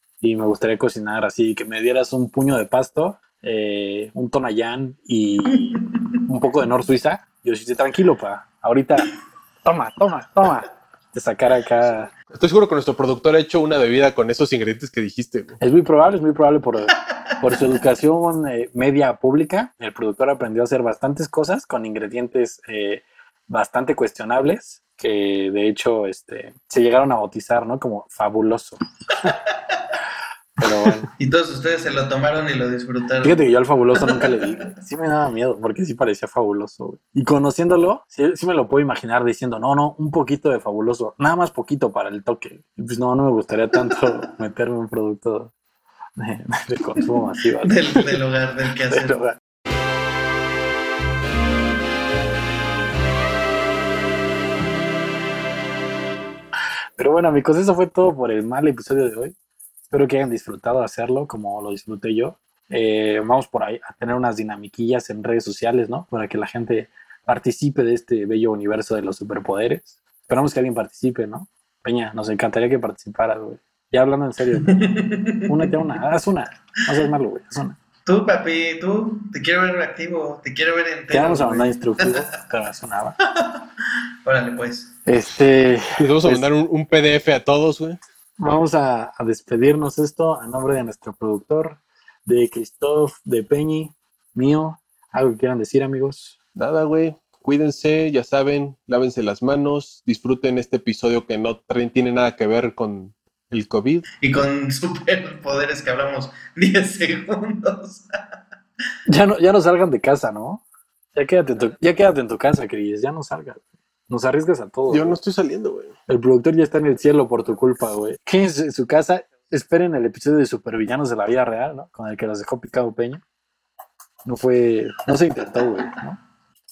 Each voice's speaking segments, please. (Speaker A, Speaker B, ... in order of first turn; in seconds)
Speaker A: 0.2-12.1, 15.6-29.3, 30.6-31.1, 33.2-45.5, 46.2-47.8, 48.9-49.4, 57.0-59.3, 59.9-74.8, 75.4-77.8, 81.1-83.2, 85.0-86.4, 88.4-96.3, 109.1-110.6, 111.1-115.2, 116.1-123.2, 124.2-126.2
Speaker B: 12.3-15.6, 86.0-88.0, 96.5-104.0, 114.9-115.9
Speaker C: 31.2-33.4, 34.0-34.7, 47.6-49.3, 74.6-75.7, 78.0-82.3, 83.3-83.6, 84.2-84.9, 104.2-108.2